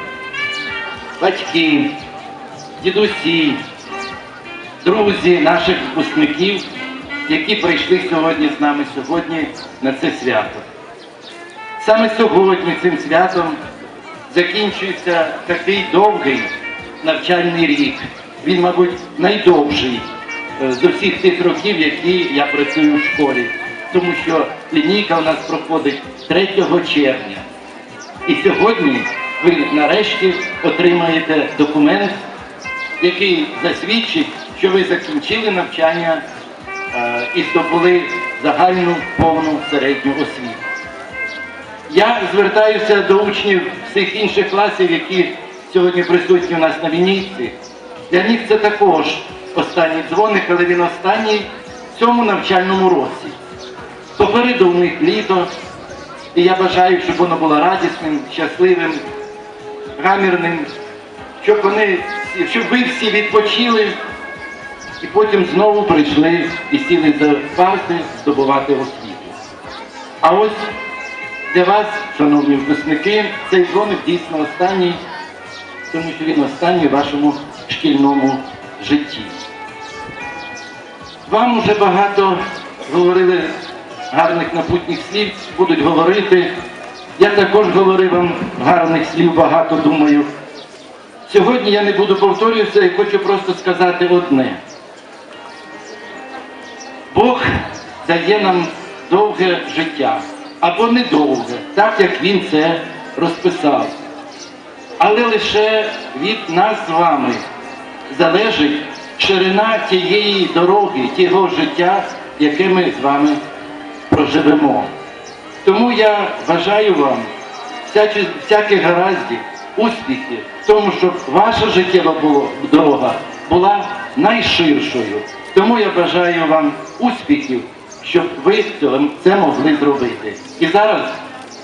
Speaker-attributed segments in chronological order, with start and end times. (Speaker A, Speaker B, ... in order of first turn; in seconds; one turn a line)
Speaker A: 1.2-1.9
Speaker A: 2.8-3.6
Speaker A: 4.8-6.7
Speaker A: 7.3-10.7
Speaker A: 11.8-13.6
Speaker A: 14.3-16.5
Speaker A: 17.0-20.1
Speaker A: 20.6-27.5
Speaker A: 28.3-32.2
Speaker A: 33.0-36.2
Speaker A: 36.9-40.6
Speaker A: 41.9-47.5
Speaker A: 48.1-53.4
Speaker A: 54.2-55.5
Speaker A: 56.3-59.0
Speaker A: 60.0-60.7
Speaker A: 61.4-64.0
Speaker A: 65.0-69.3
Speaker A: 70.2-70.7
Speaker A: 71.5-75.0
Speaker A: 75.9-79.4
Speaker A: 81.2-83.5
Speaker A: 84.1-86.5
Speaker A: 87.2-90.3
Speaker A: 91.3-94.6
Speaker A: 97.1-97.5
Speaker A: 98.0-103.9
Speaker A: 105.0-107.4
Speaker A: 108.1-113.4
Speaker A: 114.1-114.9
Speaker A: 115.6-117.3
Speaker A: 117.9-131.2